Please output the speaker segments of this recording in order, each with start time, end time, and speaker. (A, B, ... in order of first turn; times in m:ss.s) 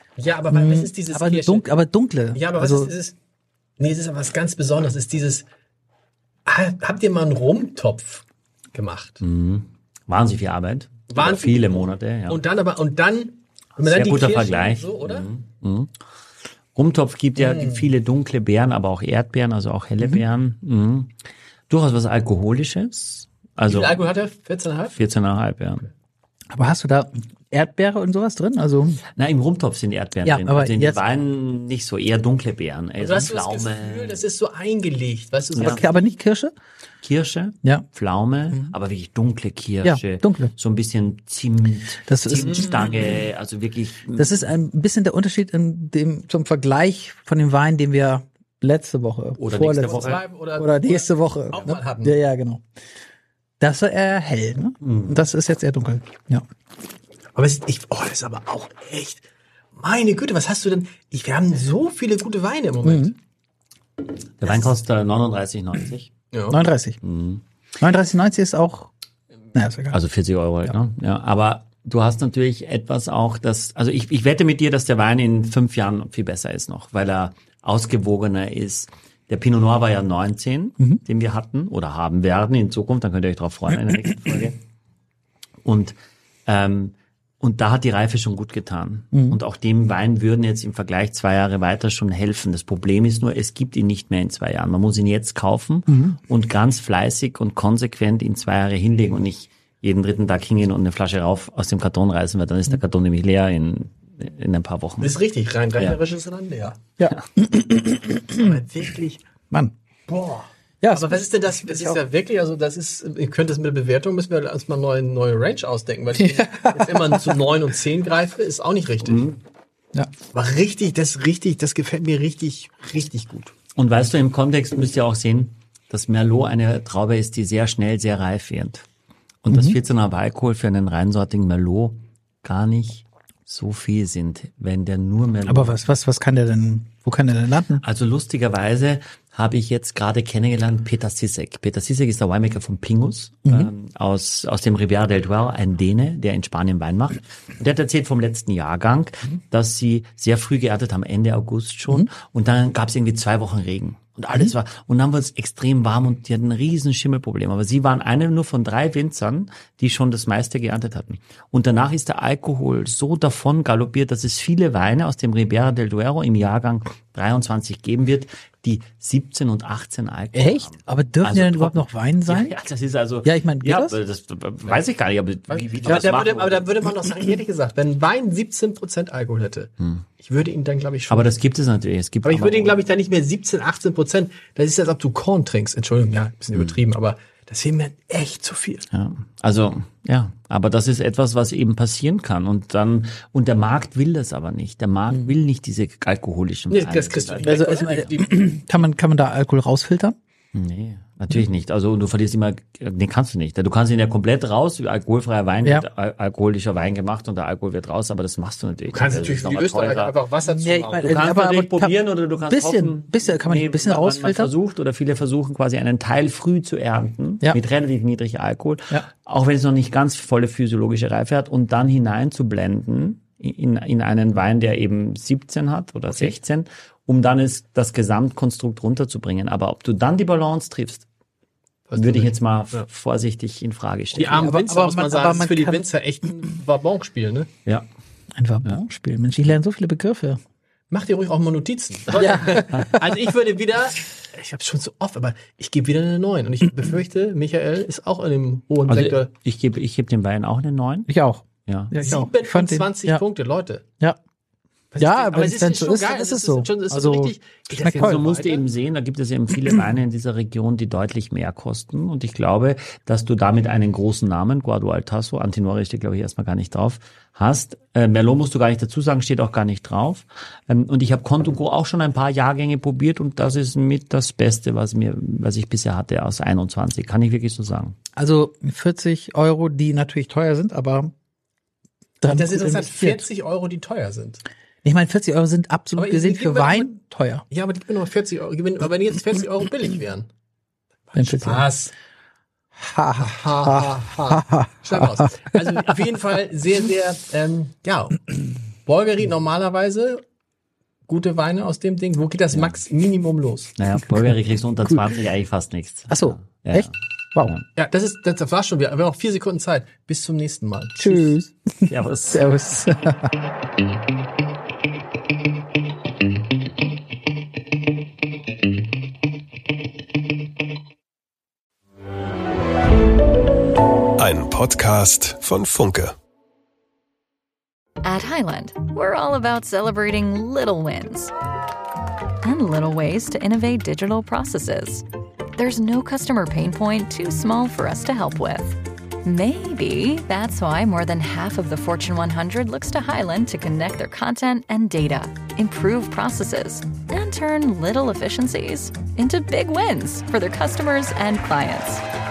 0:00.2-0:01.7 A
0:00.5-0:02.9 B
0:02.3-0:03.2 A
0:03.8-0:05.4 A
0:06.4-0:09.2 A
0:09.2-0:12.4 C
0:11.1-0:15.3 A
0:13.8-0:15.9 C
0:16.7-0:21.1 C
0:17.4-0:17.8 A
0:21.7-0:24.0 C
0:23.7-0:25.0 A
0:24.9-0:25.9 C
0:26.5-0:29.0 B
0:29.2-0:34.2 C
0:30.2-0:31.0 B
0:33.0-0:35.9 A
0:35.6-0:35.8 C
0:35.6-0:36.5 B
0:37.0-0:44.5 C
0:39.8-0:40.5 B
0:42.0-0:43.0 B
0:44.2-0:52.6 B
0:49.4-0:50.2 C
0:49.8-0:52.2 A
0:53.6-0:56.4 B
0:54.8-0:55.3 C
0:57.3-1:03.1 A
1:02.8-1:03.1 B
1:04.4-1:06.1 C
1:04.4-1:04.7 A
1:06.3-1:06.6 A
1:06.5-1:07.0 B
1:07.0-1:07.4 C
1:07.8-1:08.9 B
1:09.5-1:10.0 B
1:09.9-1:24.6 C
1:25.6-1:45.1 C
1:29.1-1:29.4 B
1:35.9-1:36.2 B
1:45.0-1:46.8 A
1:47.0-1:48.5 B
1:48.4-1:49.2 A
1:50.1-1:59.2 A
1:50.8-1:52.0 B
1:56.3-1:56.9 B
1:59.0-1:59.4 C
2:00.3-2:03.5 A
2:03.8-2:08.8 C
2:09.4-2:15.8 C
2:15.4-2:17.8 B
2:17.8-2:56.7 C
2:23.4-2:23.7 B
2:50.3-2:52.6 B
2:53.2-2:54.0 B
2:55.5-3:01.4 A
2:55.8-2:56.1 B
2:59.8-3:00.0 C
3:01.1-3:02.8 C
3:02.2-3:08.8 A
3:08.9-3:17.9 C
3:16.7-3:18.3 A
3:17.4-3:20.2 B
3:20.5-3:30.2 C
3:28.9-3:31.3 A
3:30.4-3:34.5 B
3:31.0-3:51.0 C
3:51.9-3:52.8 A
3:52.0-3:54.6 C
3:54.2-3:57.5 A
3:54.3-3:55.8 B
3:58.3-4:00.4 B
4:00.9-4:09.3 A
4:02.2-4:03.0 B
4:08.9-4:11.1 C
4:11.1-4:13.2 B
4:11.7-4:12.0 C
4:12.0-4:13.8 A
4:14.9-4:18.6 A
4:15.0-4:18.2 B
4:17.9-4:38.0 C
4:38.2-4:41.1 B
4:42.2-4:43.2 B
4:42.3-4:44.4 A
4:44.8-4:47.4 B
4:46.0-4:46.9 A
4:47.5-4:50.3 A
4:51.1-4:51.9 A
4:51.1-4:51.6 B
4:52.8-4:55.5 B
4:53.2-4:58.2 A
4:58.8-5:00.2 A
5:01.1-5:03.7 A
5:02.5-5:02.8 C
5:03.8-5:06.9 C
5:06.1-5:07.6 B
5:07.8-5:11.3 A
5:11.0-5:13.3 B
5:11.9-5:12.5 C
5:24.2-5:26.2 D
5:28.0-5:31.3 E
5:32.4-5:35.0 E
5:35.6-5:52.0 E